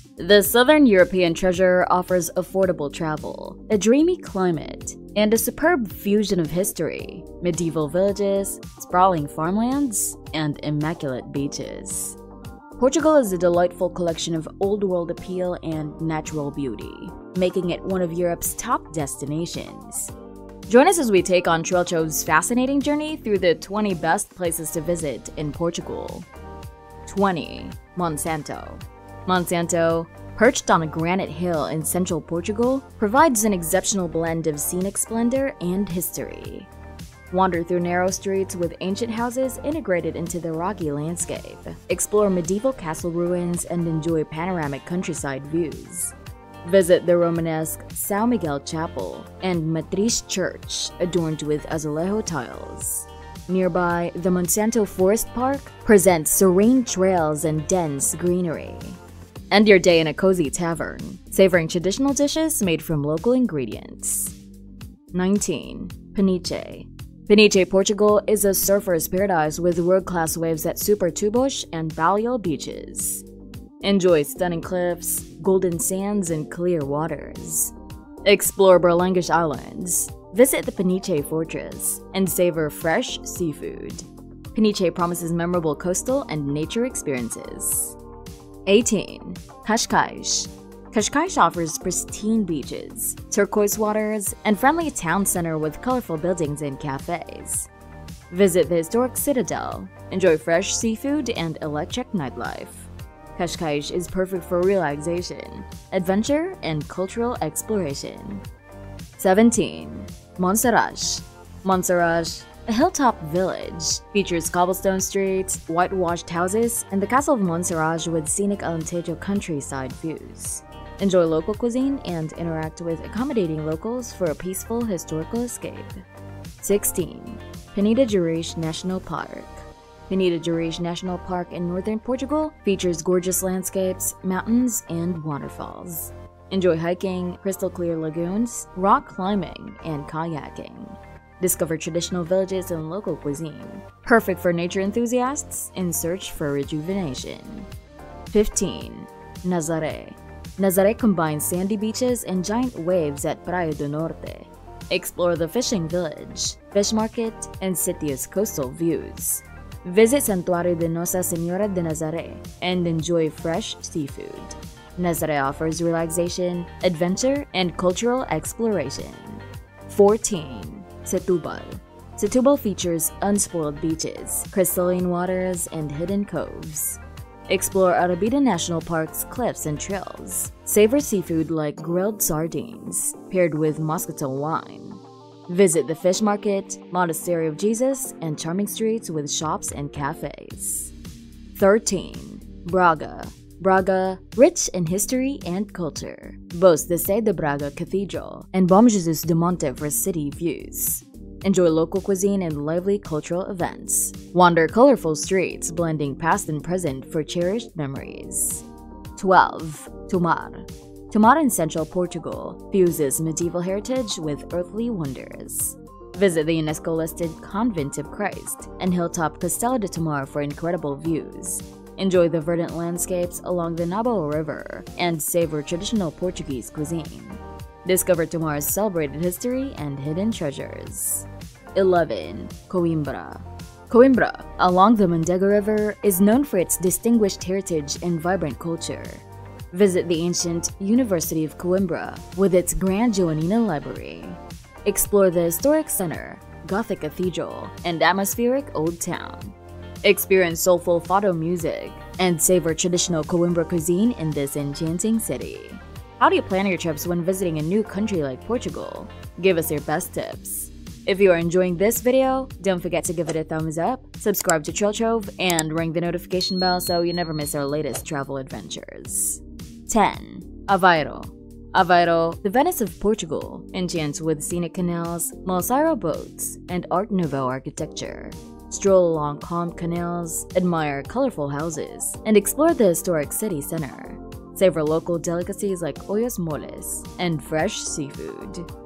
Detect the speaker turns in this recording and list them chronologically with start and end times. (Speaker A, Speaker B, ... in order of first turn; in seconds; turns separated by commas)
Speaker A: 0.2-12.2, Speaker A: 12.8-20.1, Speaker A: 20.7-26.3, Speaker A: 27.1-36.7, Speaker A: 37.3-59.0, Speaker A: 59.5-64.3, Speaker A: 65.1-73.2, Speaker A: 73.8-77.7, Speaker A: 78.2-88.0, Speaker A: 88.7-97.7, Speaker A: 98.3-108.4, Speaker A: 109.2-126.0, Speaker A: 126.6-147.7, Speaker A: 148.3-190.9, Speaker A: 191.5-208.6, Speaker A: 209.2-288.7